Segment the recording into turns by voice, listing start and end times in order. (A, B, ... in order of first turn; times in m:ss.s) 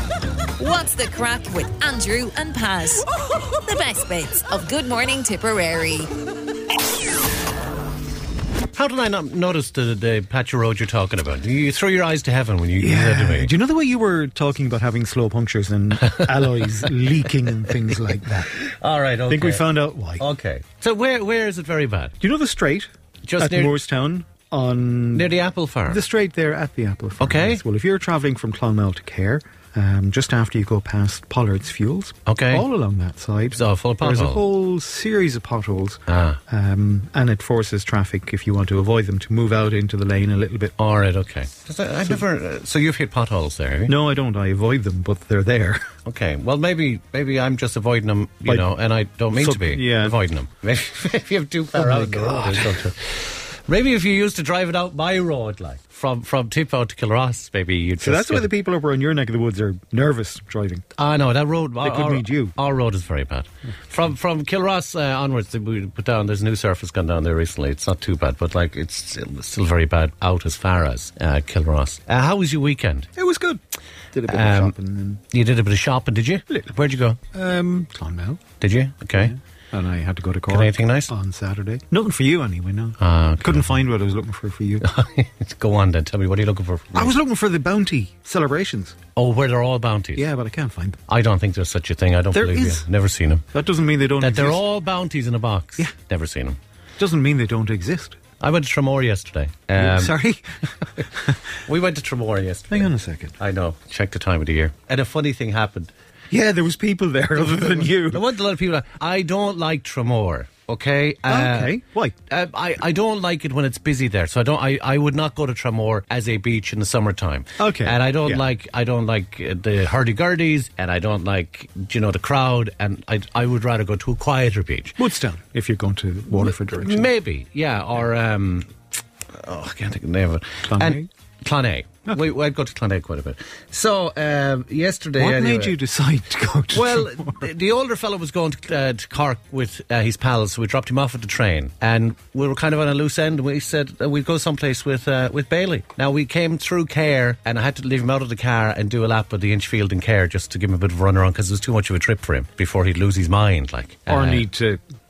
0:00.6-0:06.1 A
0:08.7-0:13.5 B
0:12.8-0:18.6 C
0:18.5-0:22.1 B
0:19.3-0:20.2 C
0:22.2-0:25.3 C
0:23.2-0:23.7 B
0:25.1-0:26.0 B
0:25.9-0:40.8 C
0:27.2-0:27.6 B
0:32.3-0:32.7 B
0:33.5-0:34.4 B
0:36.1-0:36.4 B
0:40.8-0:43.9 B
0:43.9-0:45.9 C
0:46.0-0:58.5 B
0:49.3-0:50.2 C
0:51.8-0:52.9 C
0:58.0-1:00.8 C
1:01.0-1:13.1 B
1:01.8-1:02.6 C
1:13.2-1:13.6 C
1:14.1-1:15.2 C
1:14.3-1:14.8 B
1:15.3-1:17.2 B
1:16.5-1:18.4 C
1:18.6-1:19.3 B
1:19.1-1:24.9 C
1:20.5-1:21.1 B
1:23.0-1:23.8 B
1:24.8-1:27.1 B
1:26.9-1:29.0 C
1:29.2-1:30.3 B
1:30.2-1:31.0 C
1:31.1-1:33.4 B
1:32.3-1:32.9 C
1:33.5-1:34.6 C
1:34.2-1:36.6 B
1:37.0-1:38.2 C
1:38.4-1:40.1 B
1:39.8-1:41.4 C
1:41.6-1:45.9 B
1:42.7-1:43.3 C
1:46.3-1:48.3 C
1:47.8-1:51.8 B
1:51.3-1:52.2 C
1:52.3-2:05.0 B
1:57.6-1:58.4 C
2:05.0-2:07.1 C
2:06.4-2:08.7 B
2:09.3-2:15.8 B
2:10.7-2:11.1 C
2:15.2-2:17.4 C
2:16.7-2:34.5 B
2:34.1-2:34.8 C